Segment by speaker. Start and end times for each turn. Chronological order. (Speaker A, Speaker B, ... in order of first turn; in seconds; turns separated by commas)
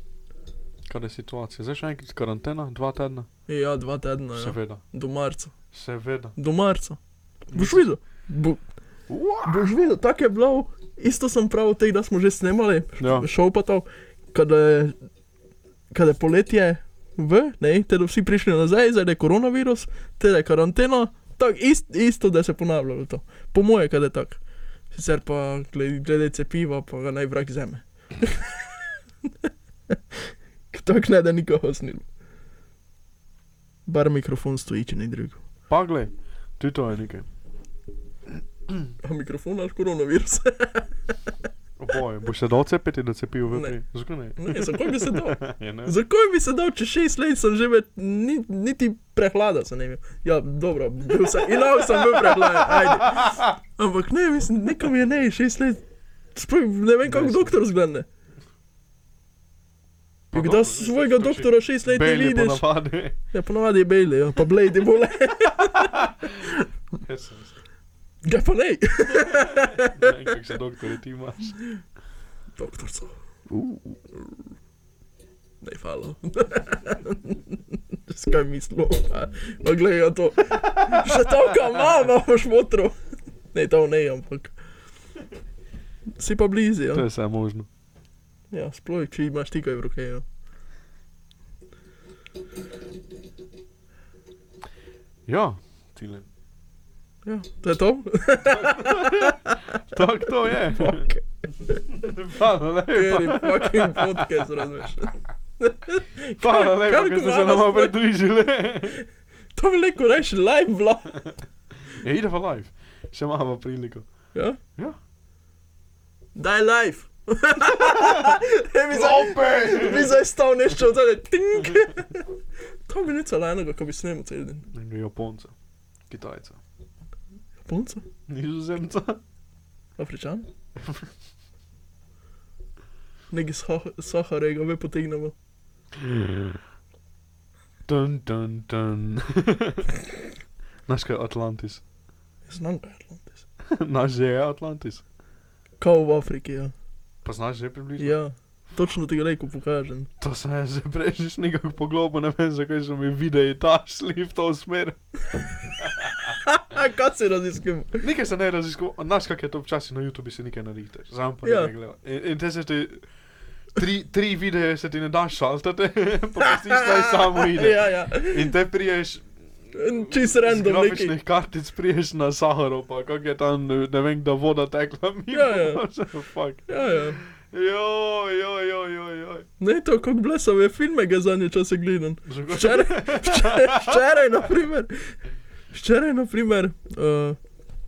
Speaker A: 0.9-3.3, Speaker B: 3.5-5.5, Speaker A: 4.3-4.8, Speaker A: 5.7-6.4, Speaker B: 6.4-7.0, Speaker A: 7.5-7.9, Speaker B: 7.5-8.6, Speaker A: 9.1-9.7, Speaker B: 9.4-15.0, Speaker A: 13.0-13.3, Speaker B: 15.9-24.4, Speaker B: 24.9-32.1, Speaker B: 33.9-35.4, Speaker A: 35.7-37.3, Speaker B: 39.0-41.1, Speaker A: 41.8-46.0, Speaker B: 43.5-43.8, Speaker B: 44.4-55.8, Speaker A: 51.4-53.5, Speaker B: 56.3-58.1, Speaker A: 57.0-57.6, Speaker A: 60.3-63.2, Speaker B: 60.3-62.6, Speaker B: 63.3-66.6, Speaker A: 65.7-66.3, Speaker A: 67.0-67.5, Speaker B: 68.2-70.1, Speaker A: 69.1-71.6, Speaker B: 72.6-73.1, Speaker A: 73.5-74.0, Speaker B: 75.6-83.0, Speaker A: 81.0-81.3, Speaker B: 83.5-84.5, Speaker B: 86.2-87.1, Speaker A: 86.9-87.7, Speaker B: 88.5-90.2, Speaker A: 95.3-96.3, Speaker B: 97.2-99.8, Speaker A: 98.4-101.1, Speaker B: 100.8-101.8, Speaker A: 101.9-104.9, Speaker B: 102.9-108.0, Speaker A: 106.4-109.0, Speaker B: 109.6-111.3, Speaker A: 111.9-114.1, Speaker B: 116.3-122.3, Speaker A: 117.8-120.2, Speaker B: 122.9-124.7, Speaker A: 124.7-125.5, Speaker A: 126.1-126.6, Speaker B: 127.6-128.1, Speaker A: 128.3-129.2, Speaker B: 130.0-130.5, Speaker A: 130.8-131.1, Speaker B: 133.3-135.3, Speaker A: 136.0-136.5, Speaker A: 137.9-140.0, Speaker A: 140.9-141.8, Speaker B: 142.5-143.4, Speaker A: 143.7-145.0, Speaker B: 145.8-146.7, Speaker A: 147.2-148.2, Speaker B: 148.0-150.1, Speaker A: 150.2-155.0, Speaker A: 155.8-156.3, Speaker B: 156.3-158.0, Speaker A: 158.0-163.0, Speaker B: 161.4-161.7, Speaker A: 163.7-169.3, Speaker B: 166.4-168.5, Speaker B: 169.7-171.2, Speaker A: 170.0-179.5, Speaker B: 175.3-175.8, Speaker B: 176.7-177.2, Speaker B: 179.6-185.2, Speaker A: 182.3-184.2, Speaker B: 185.7-187.4